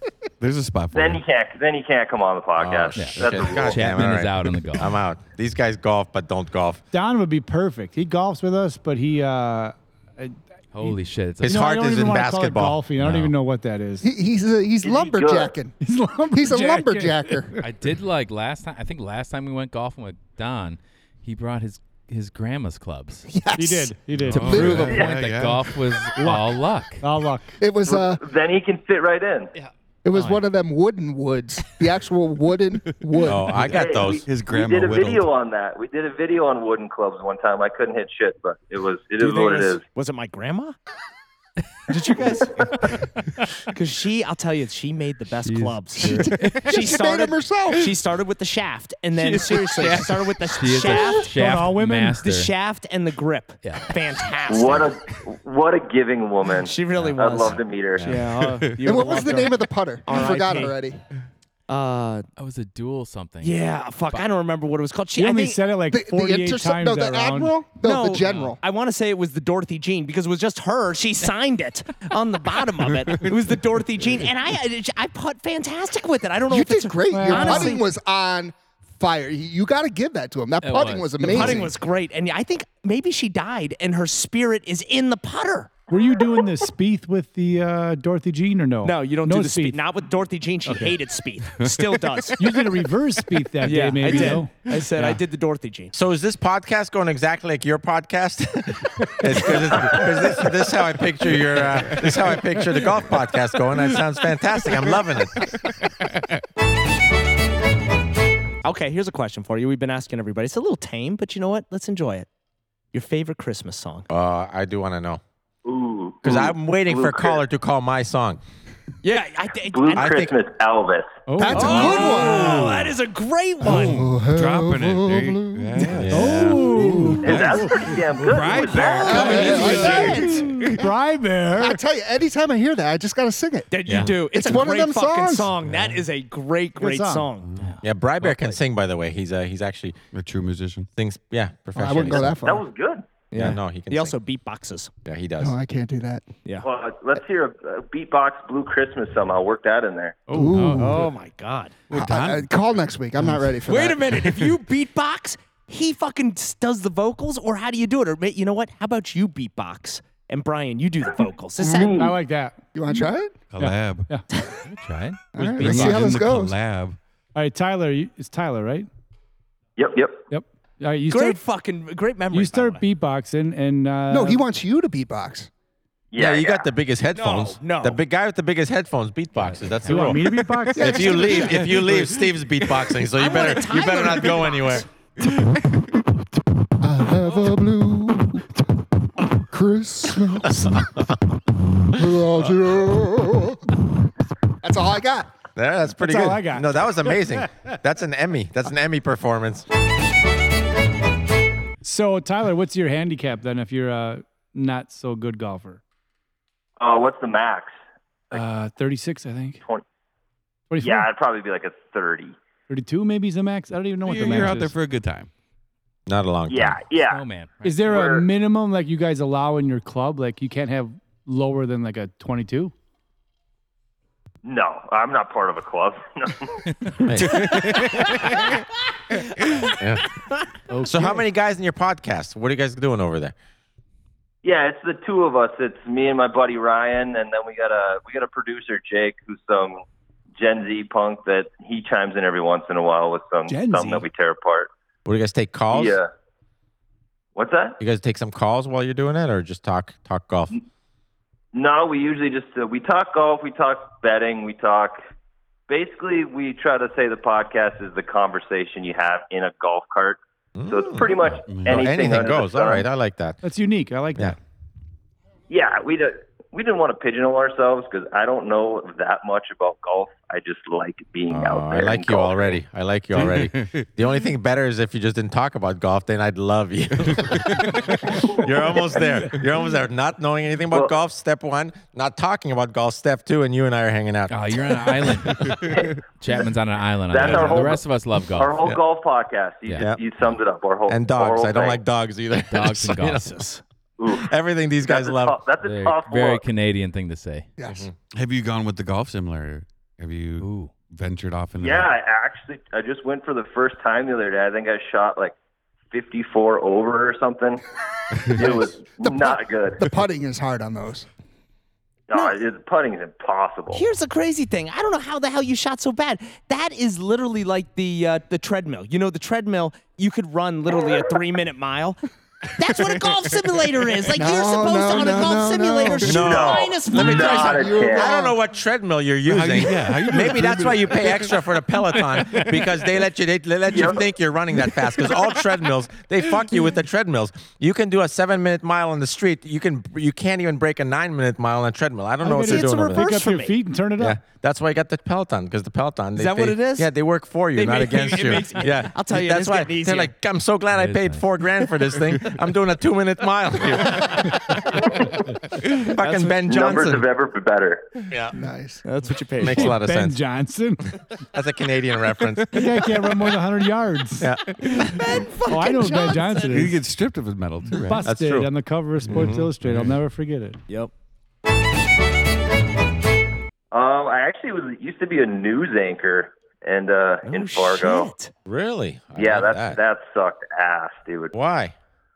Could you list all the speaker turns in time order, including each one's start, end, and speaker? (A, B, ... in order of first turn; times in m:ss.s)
0:00.4-0:01.2 A
0:00.9-0:03.9 B
0:02.6-0:06.8 C
0:03.0-0:05.0 D
0:03.2-0:03.6 A
0:06.9-0:14.1 E
0:10.7-0:11.6 D
0:11.4-0:12.8 C
0:13.0-0:13.3 D
0:14.0-0:15.8 F
0:14.8-0:15.6 B
0:15.8-0:17.6 E
0:16.3-0:17.5 F
0:17.6-0:23.3 D
0:23.3-0:25.0 F
0:23.5-0:24.8 E
0:24.2-0:25.7 A
0:24.3-0:27.0 D
0:26.2-0:27.6 E
0:27.6-0:28.2 F
0:27.9-0:29.5 B
0:30.0-0:33.7 F
0:30.1-0:30.5 D
0:33.2-0:34.2 C
0:33.2-0:35.3 A
0:33.7-0:39.8 B
0:39.2-0:40.8 G
0:41.9-0:42.6 G
0:42.0-0:43.0 B
0:43.7-0:51.2 G
0:45.4-0:46.7 D
0:46.0-0:48.0 F
0:49.2-0:52.5 D
0:51.0-0:52.2 E
0:52.2-0:54.9 G
0:53.6-0:54.0 D
0:54.5-0:58.2 B
0:56.5-1:00.7 G
0:58.0-0:58.8 A
0:58.8-1:01.0 F
1:00.1-1:00.7 E
1:01.7-1:02.2 G
1:02.4-1:04.3 D
1:03.4-1:05.6 G
1:05.1-1:07.6 E
1:05.9-1:08.6 F
1:07.8-1:17.8 G
1:08.3-1:08.5 D
1:13.0-1:14.1 A
1:16.5-1:21.8 F
1:17.1-1:17.8 E
1:20.6-1:21.6 D
1:21.2-1:25.8 G
1:25.9-1:29.8 E
1:28.8-1:32.6 G
1:30.6-1:31.0 E
1:32.4-1:35.2 E
1:33.6-1:35.9 G
1:35.9-1:45.4 C
1:39.4-1:40.3 G
1:48.6-1:52.3 G
1:52.9-1:54.1 G
1:54.1-1:55.2 C
1:55.6-1:57.4 B
1:56.2-1:58.4 C
1:59.0-2:00.1 G
1:59.7-2:01.1 B
1:59.9-2:00.3 C
2:01.3-2:01.9 E
2:01.4-2:02.9 F
2:01.5-2:04.1 G
2:03.6-2:06.0 F
2:03.7-2:10.7 A
2:05.9-2:06.7 C
2:06.1-2:08.0 E
2:06.7-2:07.3 F
2:07.2-2:09.1 B
2:08.7-2:10.7 G
2:09.1-2:10.4 F
2:09.1-2:11.8 E
2:11.6-2:15.6 F
2:13.7-2:17.5 G
2:13.9-2:14.2 C
2:15.6-2:16.0 A
2:16.8-2:17.3 E
2:17.4-2:17.7 A
2:17.6-2:18.6 D
2:17.8-2:20.0 C
2:20.1-2:20.9 A
2:21.0-2:22.4 C
2:21.8-2:22.6 F
2:22.4-2:23.2 B
2:23.3-2:24.9 G
2:23.4-2:24.2 C
2:25.0-2:25.6 C
2:25.4-2:26.3 F
2:26.6-2:30.2 B
2:30.3-2:31.1 F
2:30.5-2:31.0 D
2:30.8-2:31.8 G
2:31.9-2:33.6 A
2:31.9-2:34.2 F
2:33.6-2:41.9 G
2:41.6-2:42.2 B
2:42.0-2:42.6 E
2:42.8-2:43.4 F
2:43.5-2:44.1 A
2:43.6-2:44.3 E
2:44.6-2:46.2 D
2:45.3-2:46.6 F
2:45.6-2:47.0 A
2:45.7-2:46.0 E
2:47.3-2:48.9 E
2:49.8-2:50.2 B
2:50.3-2:51.4 E
2:51.1-2:52.8 G
2:52.3-2:54.4 E
2:54.1-2:55.5 F
2:56.1-2:56.7 B
2:56.2-3:04.8 C
2:57.1-2:58.0 G
2:59.4-3:00.1 D
2:59.8-3:02.0 E
3:00.8-3:01.5 F
3:03.1-3:04.9 G
3:06.8-3:08.5 F
3:09.2-3:11.0 F
3:11.9-3:13.8 F
3:14.6-3:15.4 F
3:15.6-3:19.6 C
3:15.9-3:17.5 E
3:21.8-3:25.8 E
3:26.8-3:27.7 B
3:28.3-3:29.6 E
3:30.7-3:31.1 E
3:30.8-3:32.4 B
3:32.7-3:34.8 E
3:34.1-3:35.3 A
3:36.1-3:36.8 C
3:36.5-3:37.2 B
3:37.1-3:37.8 D
3:37.6-3:42.7 E
3:37.8-3:38.2 B
3:44.4-3:46.6 B
3:47.1-3:47.4 C
3:47.3-3:48.4 G
3:47.3-3:47.8 A
3:49.8-3:50.0 C
3:50.7-3:51.2 E
3:50.8-3:53.4 C
3:54.4-3:59.8 B
4:00.4-4:04.7 B
4:03.5-4:04.1 E
4:05.1-4:06.0 C
4:05.7-4:06.0 B
4:07.4-4:07.8 B
4:07.8-4:10.5 C
4:11.5-4:15.0 B
4:15.7-4:22.9 B
4:20.6-4:21.1 C
4:21.5-4:21.9 A
4:21.6-4:23.4 C
4:23.4-4:24.4 E
4:25.5-4:32.6 B
4:31.3-4:45.2 C
4:33.1-4:33.9 A
4:37.1-4:37.8 A
4:40.7-4:41.0 B
4:44.3-4:45.4 D
4:45.5-4:45.9 A
4:45.6-4:46.0 B
4:46.2-4:48.8 D
4:47.1-4:51.8 B
4:49.8-4:50.2 C
4:50.9-4:53.3 C
4:52.5-4:53.5 D
4:53.3-4:53.6 G
4:54.0-4:54.3 B
4:54.1-4:55.5 C
4:54.8-4:56.4 B
4:55.6-4:57.5 D
4:57.6-4:57.9 F
4:58.1-5:01.9 A
5:00.4-5:00.7 D
5:01.6-5:05.3 B
5:05.9-5:07.6 B
5:08.3-5:09.9 B
5:08.4-5:11.1 F
5:12.1-5:13.9 B
5:13.7-5:22.0 G
5:22.6-5:27.8 G
5:24.1-5:26.3 F
5:26.0-5:43.2 C
5:26.3-5:28.1 B
5:26.8-5:28.4 F
5:29.2-5:30.6 A
5:29.6-5:31.3 F
5:32.0-5:32.4 D
5:33.7-5:34.0 B
5:42.2-5:44.2 E
5:42.5-5:43.6 G
5:44.0-5:54.8 C
5:46.2-5:46.9 G
5:47.5-5:50.1 G
5:50.7-5:51.3 D
5:55.8-5:57.1 C
5:56.0-5:56.9 G
5:56.4-5:58.0 B
5:58.1-5:58.4 C
5:58.3-5:58.8 F
5:58.8-5:59.8 G
5:59.4-6:00.2 C
5:59.5-6:00.9 E
6:01.3-6:03.3 C
6:02.5-6:04.3 E
6:04.6-6:06.6 G
6:05.4-6:06.8 E
6:06.5-6:08.0 A
6:07.8-6:10.6 E
6:08.0-6:08.5 C
6:09.1-6:10.0 A
6:13.7-6:18.1 B
6:17.2-6:18.3 G
6:18.4-6:19.8 C
6:19.1-6:21.3 B
6:21.3-6:21.7 C